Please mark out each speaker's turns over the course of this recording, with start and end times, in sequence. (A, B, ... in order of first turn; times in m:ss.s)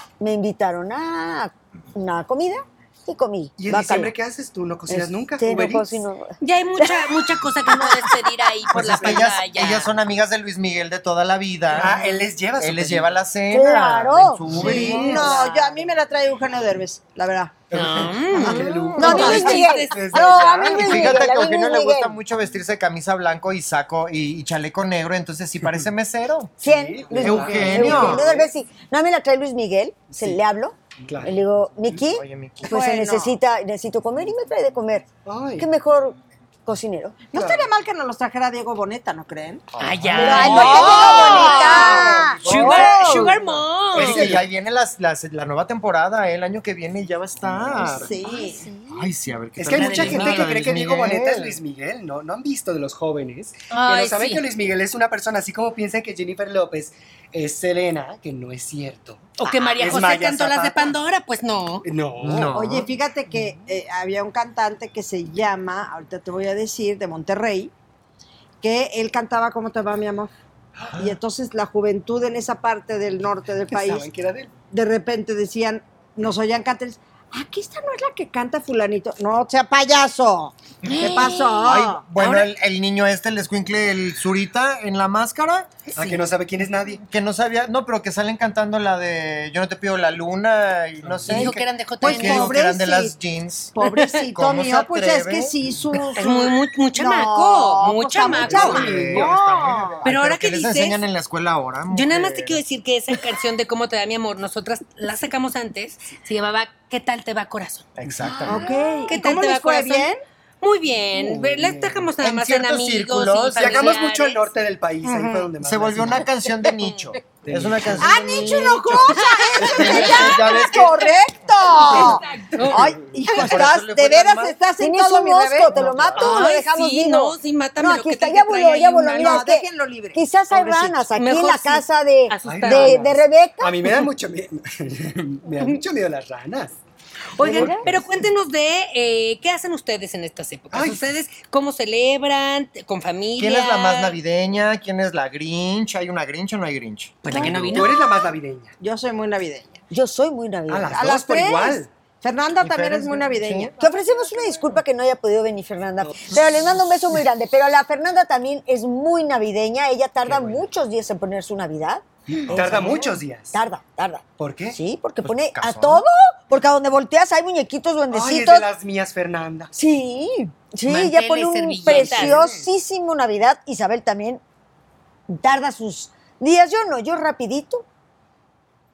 0:00.2-0:04.1 A
0:03.6-0:06.0 B
0:04.9-0:08.5 A
0:06.4-0:09.9 C
0:08.7-0:12.0 D
0:08.8-0:09.2 B
0:11.7-0:13.2 B
0:12.6-0:15.4 D
0:13.5-0:15.7 A
0:14.5-0:15.3 B
0:14.6-0:17.6 E
0:15.2-0:15.4 C
0:17.7-0:20.1 C
0:17.7-0:21.3 B
0:18.3-0:19.5 D
0:18.5-0:20.4 E
0:19.0-0:22.2 A
0:20.7-0:26.6 D
0:26.6-0:35.1 A
0:26.6-0:28.5 B
0:27.2-0:28.3 D
0:30.1-0:30.4 B
0:31.0-0:31.4 B
0:32.1-0:32.7 D
0:32.6-0:33.4 E
0:35.2-0:35.7 B
0:35.6-0:37.2 A
0:37.3-0:43.4 E
0:37.3-0:37.7 B
0:39.7-0:41.7 D
0:39.8-0:44.4 C
0:40.1-0:42.9 A
0:42.4-0:43.3 D
0:42.4-0:44.4 B
0:43.9-0:48.1 D
0:47.8-0:48.7 E
0:47.8-0:49.0 A
0:48.9-0:51.6 D
0:49.6-1:00.9 B
0:49.7-0:50.5 C
0:53.7-0:54.4 C
0:59.4-1:01.9 C
1:01.8-1:02.6 B
1:02.2-1:02.9 D
1:02.5-1:07.7 E
1:08.6-1:10.3 E
1:10.8-1:11.0 B
1:11.0-1:14.1 E
1:13.7-1:14.5 B
1:14.7-1:22.0 E
1:20.8-1:22.5 C
1:21.6-1:26.2 D
1:25.9-1:27.0 B
1:27.0-1:33.8 D
1:31.0-1:31.5 B
1:31.3-1:32.6 C
1:32.0-1:33.1 E
1:33.7-1:40.0 E
1:33.8-1:34.1 C
1:34.3-1:35.5 D
1:36.1-1:38.9 C
1:38.3-1:39.4 B
1:38.4-1:42.6 D
1:40.0-1:41.0 C
1:41.9-1:47.9 C
1:48.0-1:48.6 D
1:48.0-1:48.7 B
1:48.4-1:50.2 E
1:49.1-1:50.1 C
1:50.6-1:54.5 C
1:51.1-1:52.1 B
1:52.2-1:54.0 D
1:53.5-1:56.3 B
1:55.0-1:55.5 E
1:55.6-2:01.2 D
1:56.7-1:57.0 C
1:57.4-1:58.1 B
1:58.0-2:05.8 E
1:59.0-2:00.8 C
2:01.8-2:02.9 C
2:03.3-2:04.6 D
2:04.8-2:13.8 A
2:05.7-2:06.4 D
2:06.2-2:09.5 C
2:09.2-2:10.2 E
2:10.5-2:13.0 C
2:12.4-2:16.8 B
2:17.4-2:24.2 C
2:17.4-2:18.1 B
2:17.4-2:17.9 A
2:20.7-2:21.0 B
2:23.4-2:27.8 D
2:27.2-2:27.9 C
2:27.3-2:28.7 B
2:28.8-2:29.8 E
2:29.9-2:31.1 A
2:30.7-2:31.9 B
2:30.9-2:33.7 E
2:32.6-2:33.7 D
2:33.8-2:42.0 A
2:40.2-2:40.6 B
2:42.4-2:43.6 B
2:42.5-2:43.1 D
2:42.5-2:43.0 A
2:43.5-2:48.7 A
2:44.4-2:44.8 B
2:45.3-2:46.0 D
2:48.1-2:49.7 B
2:49.7-2:54.4 A
2:50.8-2:52.4 C
2:51.9-2:52.7 B
2:55.3-2:57.8 A